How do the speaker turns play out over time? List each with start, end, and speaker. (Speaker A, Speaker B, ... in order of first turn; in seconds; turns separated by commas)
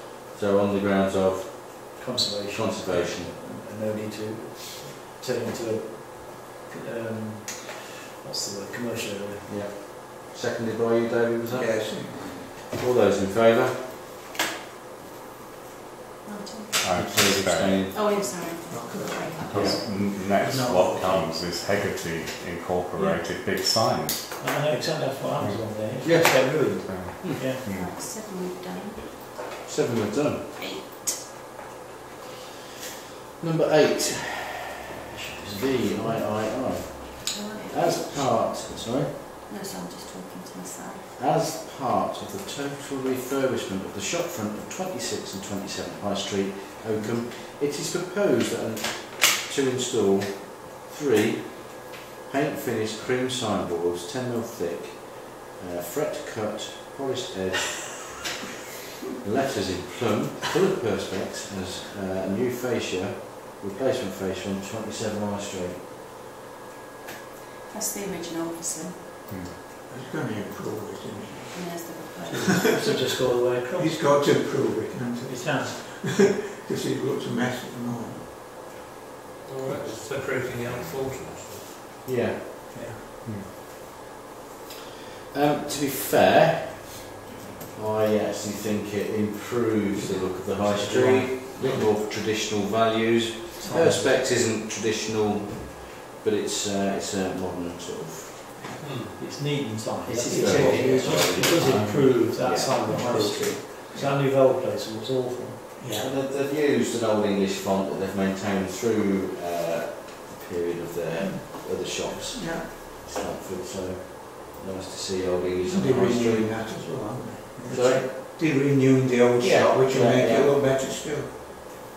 Speaker A: 0.3-3.3, Speaker B: 2.0-9.5, Speaker A: 9.4-13.9, Speaker C: 11.5-12.6, Speaker D: 16.2-16.8, Speaker E: 16.8-17.8, Speaker A: 16.9-18.1, Speaker D: 17.9-20.0, Speaker C: 18.6-19.5, Speaker E: 19.4-24.3, Speaker A: 19.5-19.8, Speaker C: 20.2-21.3, Speaker B: 22.9-23.2, Speaker B: 24.4-27.6, Speaker E: 25.4-25.7, Speaker C: 26.0-26.6, Speaker E: 26.8-27.9, Speaker D: 27.2-29.0, Speaker A: 29.6-30.5, Speaker D: 30.6-31.2, Speaker A: 33.4-34.8, Speaker B: 35.1-36.3, Speaker A: 35.5-39.2, Speaker D: 37.3-38.4, Speaker D: 39.5-41.1, Speaker A: 41.2-58.0, Speaker A: 59.2-65.8, Speaker D: 67.7-69.0, Speaker E: 69.3-69.6, Speaker C: 69.8-72.8, Speaker D: 71.5-72.5, Speaker B: 72.4-74.4, Speaker C: 73.7-78.3, Speaker B: 75.2-75.8, Speaker F: 79.5-81.6, Speaker A: 82.0-82.5, Speaker E: 83.2-83.5, Speaker A: 85.3-87.2, Speaker A: 87.7-98.4, Speaker B: 90.5-91.4, Speaker B: 93.6-94.2, Speaker C: 98.6-98.9, Speaker F: 98.8-99.2, Speaker B: 99.2-105.7, Speaker A: 100.0-102.8, Speaker C: 100.2-101.6, Speaker E: 101.6-102.1, Speaker C: 102.8-104.1, Speaker C: 105.8-106.1, Speaker A: 105.9-116.6, Speaker C: 112.3-112.7, Speaker C: 115.6-121.7, Speaker A: 117.6-118.1, Speaker A: 119.4-120.5